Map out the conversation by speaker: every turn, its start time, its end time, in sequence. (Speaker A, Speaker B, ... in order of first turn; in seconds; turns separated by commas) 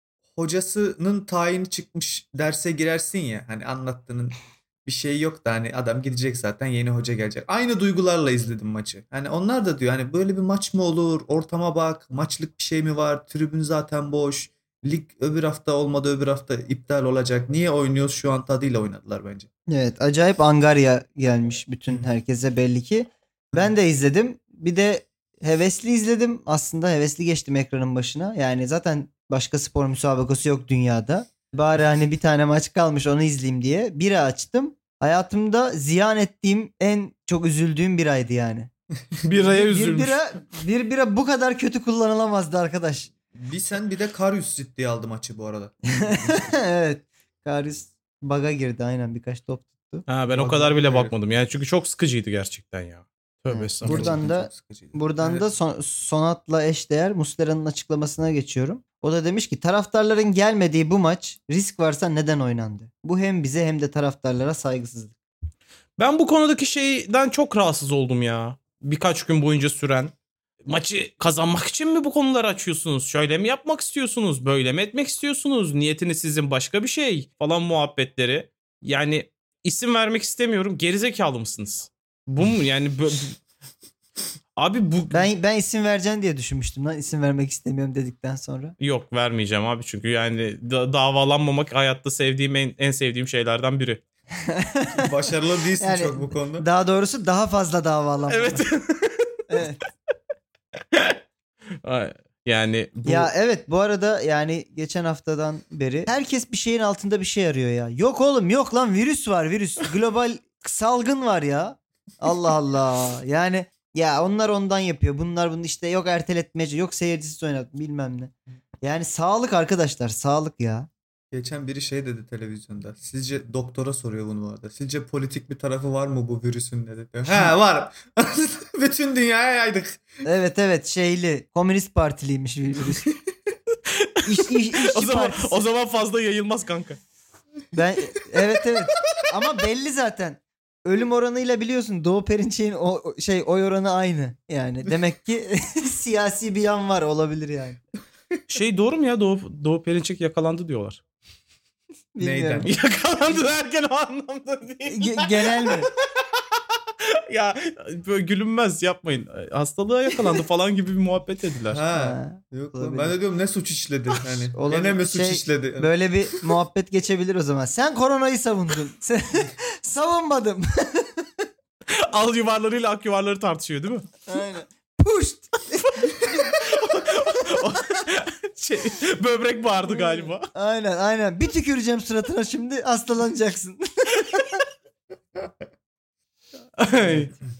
Speaker A: 0.3-19.5, Speaker B: 19.7-38.7, Speaker C: 39.2-40.2, Speaker B: 39.4-43.1, Speaker A: 43.3-46.5, Speaker B: 45.9-50.0, Speaker C: 50.1-54.2, Speaker A: 50.3-51.1, Speaker B: 53.5-65.1, Speaker A: 53.8-55.5, Speaker C: 66.0-70.1, Speaker C: 70.6-83.4, Speaker C: 84.5-85.3, Speaker B: 85.1-88.7, Speaker C: 88.8-94.0, Speaker B: 94.5-95.0, Speaker A: 94.9-96.7, Speaker B: 95.8-98.6, Speaker C: 98.3-99.6, Speaker B: 99.5-99.8, Speaker C: 100.9-101.2, Speaker C: 101.8-103.3, Speaker B: 103.0-120.9, Speaker A: 121.3-130.2, Speaker B: 130.2-133.1, Speaker C: 133.9-137.0, Speaker B: 134.2-135.6, Speaker B: 137.7-147.8, Speaker C: 148.5-151.0, Speaker B: 152.1-152.7, Speaker A: 152.2-152.7, Speaker C: 152.6-161.8, Speaker B: 154.9-155.9, Speaker A: 161.7-165.9, Speaker B: 161.9-163.2, Speaker B: 164.6-171.4, Speaker C: 171.9-174.1, Speaker B: 174.3-176.3, Speaker C: 176.5-180.5, Speaker B: 179.8-184.6, Speaker C: 186.8-187.3